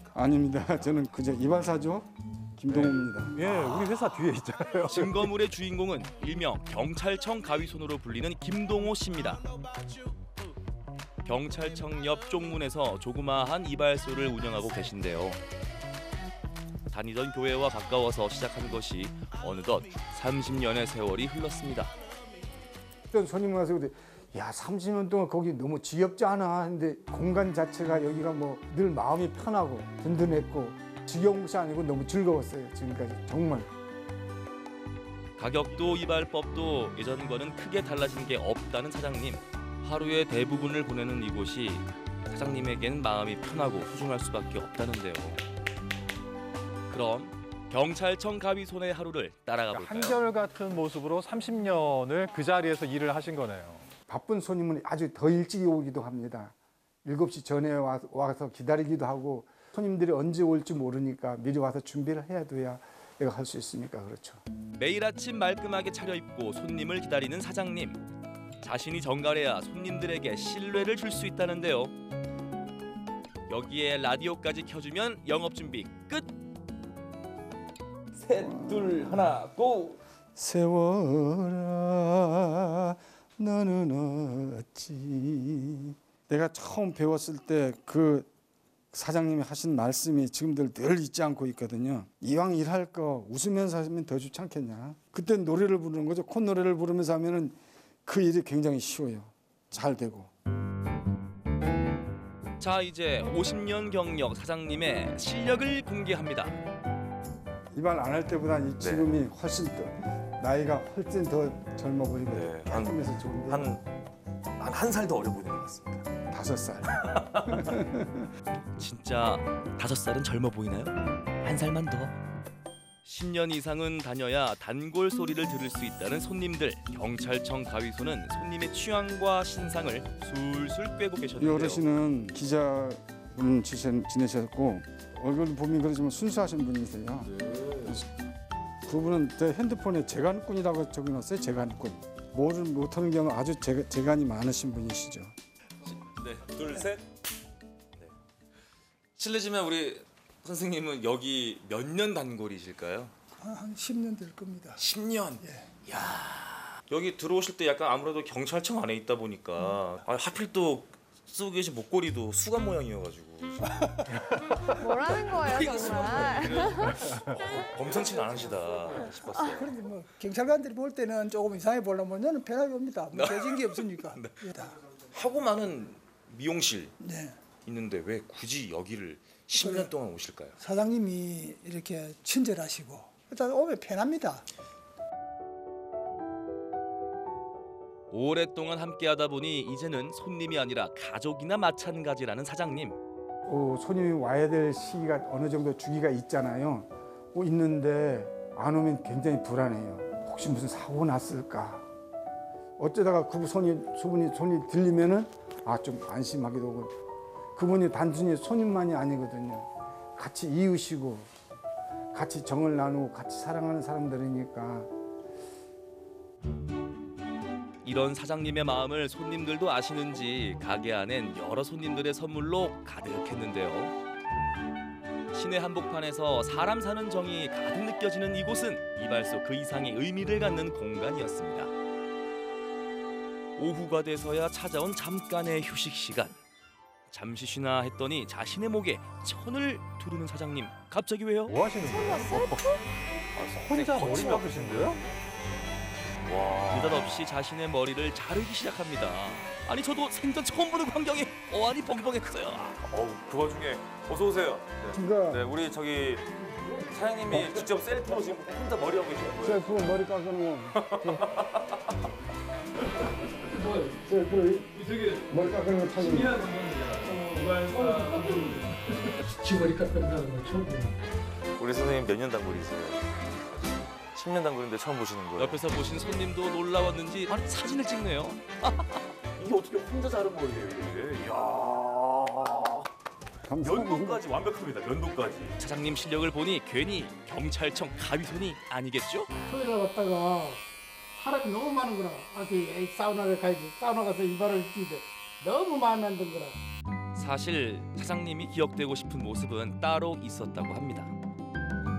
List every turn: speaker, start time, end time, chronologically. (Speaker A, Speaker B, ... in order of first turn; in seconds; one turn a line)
Speaker A: 0.1-3.5
Speaker B: 2.7-5.3
Speaker C: 4.9-9.4
Speaker C: 11.2-15.4
Speaker C: 16.9-21.9
Speaker A: 23.1-33.7
Speaker C: 35.4-45.4
Speaker C: 46.9-50.2
Speaker B: 49.7-53.9
Speaker A: 54.1-56.5
Speaker A: 57.0-64.4
Speaker C: 64.8-68.0
Speaker C: 68.6-71.9
Speaker C: 73.5-76.3
Speaker D: 78.3-79.9
Speaker A: 78.4-78.9
Speaker A: 80.3-88.3
Speaker A: 88.9-100.3
Speaker C: 102.6-106.6
Speaker A: 107.7-113.7
Speaker D: 112.3-112.9
Speaker D: 113.5-113.8
Speaker D: 114.6-116.0
Speaker A: 116.3-116.9
Speaker A: 117.6-118.0
Speaker C: 118.8-122.1
Speaker C: 123.0-131.8
Speaker A: 131.4-137.3
Speaker A: 138.8-145.3
Speaker D: 146.2-147.0
Speaker D: 149.2-153.1
Speaker E: 153.4-154.8
Speaker D: 154.8-155.4
Speaker E: 155.4-155.7
Speaker D: 155.9-163.7
Speaker F: 164.8-167.0
Speaker D: 165.5-169.6
Speaker E: 167.9-174.8
Speaker D: 175.2-176.9
Speaker E: 177.0-177.4
Speaker D: 177.7-180.5
Speaker E: 179.5-179.9
Speaker E: 180.6-184.4
Speaker C: 188.1-193.0
Speaker A: 193.4-201.8
Speaker A: 202.8-206.9
Speaker A: 207.5-211.3
Speaker A: 212.1-214.9
Speaker C: 217.8-223.9
Speaker C: 225.3-231.7
Speaker C: 233.6-236.4
Speaker C: 237.1-241.6
Speaker B: 241.5-242.7
Speaker F: 241.9-242.6
Speaker B: 243.5-245.0
Speaker C: 243.7-244.4
Speaker D: 244.0-244.4
Speaker C: 246.4-252.8
Speaker D: 252.8-256.2
Speaker A: 254.9-255.4
Speaker D: 256.9-259.7
Speaker A: 259.4-261.2
Speaker E: 263.6-264.0
Speaker A: 264.0-264.7
Speaker A: 265.3-266.4
Speaker D: 266.0-268.2
Speaker E: 267.0-271.0
Speaker D: 271.6-273.1
Speaker D: 274.1-275.6
Speaker C: 275.4-279.0
Speaker D: 279.4-282.8
Speaker A: 283.4-284.2
Speaker D: 283.6-285.5
Speaker C: 285.6-289.3
Speaker E: 289.4-290.6
Speaker E: 291.1-296.6
Speaker C: 297.1-301.1